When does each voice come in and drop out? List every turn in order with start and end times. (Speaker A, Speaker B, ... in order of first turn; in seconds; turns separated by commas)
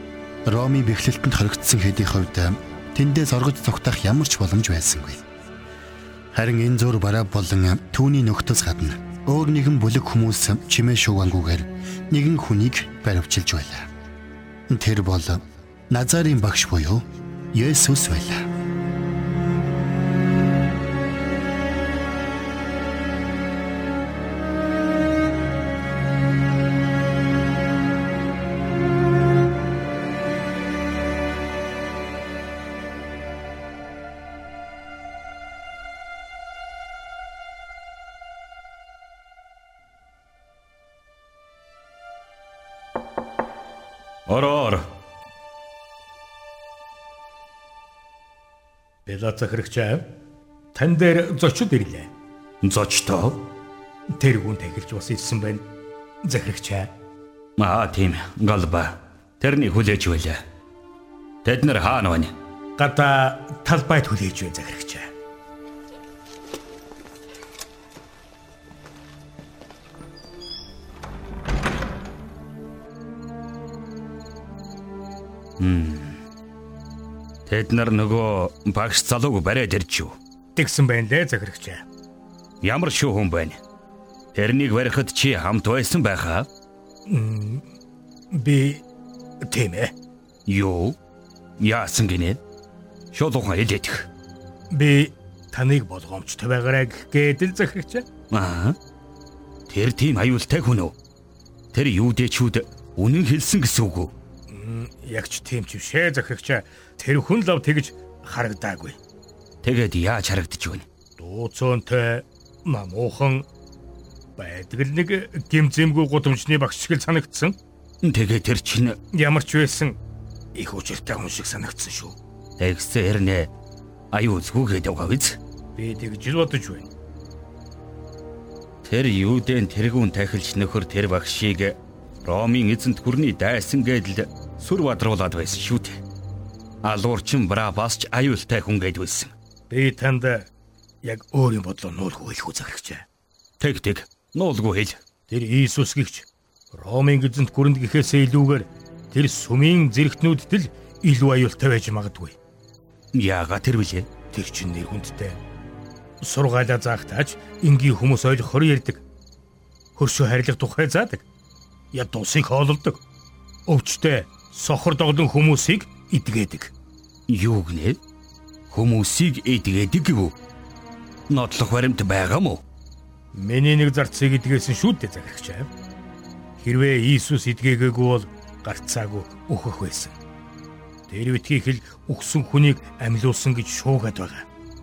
Speaker A: 0.5-5.2, Speaker A: 6.3-13.9, Speaker A: 14.7-18.5, Speaker B: 44.3-44.9, Speaker C: 49.0-50.1, Speaker C: 50.7-52.1, Speaker B: 52.6-53.4, Speaker C: 54.1-55.6, Speaker C: 56.2-56.9, Speaker B: 57.6-60.4, Speaker B: 61.4-62.3, Speaker C: 62.8-65.1, Speaker B: 75.6-76.2, Speaker B: 77.5-80.2, Speaker C: 80.5-81.8, Speaker B: 82.6-83.6, Speaker B: 84.3-86.5, Speaker C: 87.1-87.7, Speaker C: 88.3-88.8, Speaker C: 89.4-89.9, Speaker B: 90.5-91.0, Speaker B: 91.6-92.4, Speaker B: 93.1-94.1, Speaker C: 94.7-98.0, Speaker B: 98.3-98.8, Speaker B: 99.7-100.9, Speaker B: 101.7-104.1, Speaker C: 104.5-109.0, Speaker B: 109.6-110.8, Speaker C: 111.2-113.5, Speaker C: 114.4-117.6, Speaker B: 118.0-119.0, Speaker C: 119.1-120.0, Speaker C: 120.5-122.2, Speaker B: 122.6-123.5, Speaker B: 124.1-125.4, Speaker C: 125.8-126.9, Speaker B: 128.8-136.0, Speaker B: 136.8-139.3, Speaker C: 139.7-140.5, Speaker C: 141.0-143.0, Speaker B: 143.6-145.0, Speaker C: 145.3-152.4, Speaker B: 153.1-154.1, Speaker C: 154.3-155.4, Speaker C: 156.2-159.0, Speaker C: 159.9-161.2, Speaker C: 161.9-163.0, Speaker C: 163.7-166.7, Speaker B: 167.3-168.0, Speaker B: 168.7-170.3, Speaker B: 171.3-172.6, Speaker C: 173.3-175.7, Speaker C: 176.6-180.2, Speaker C: 181.1-184.4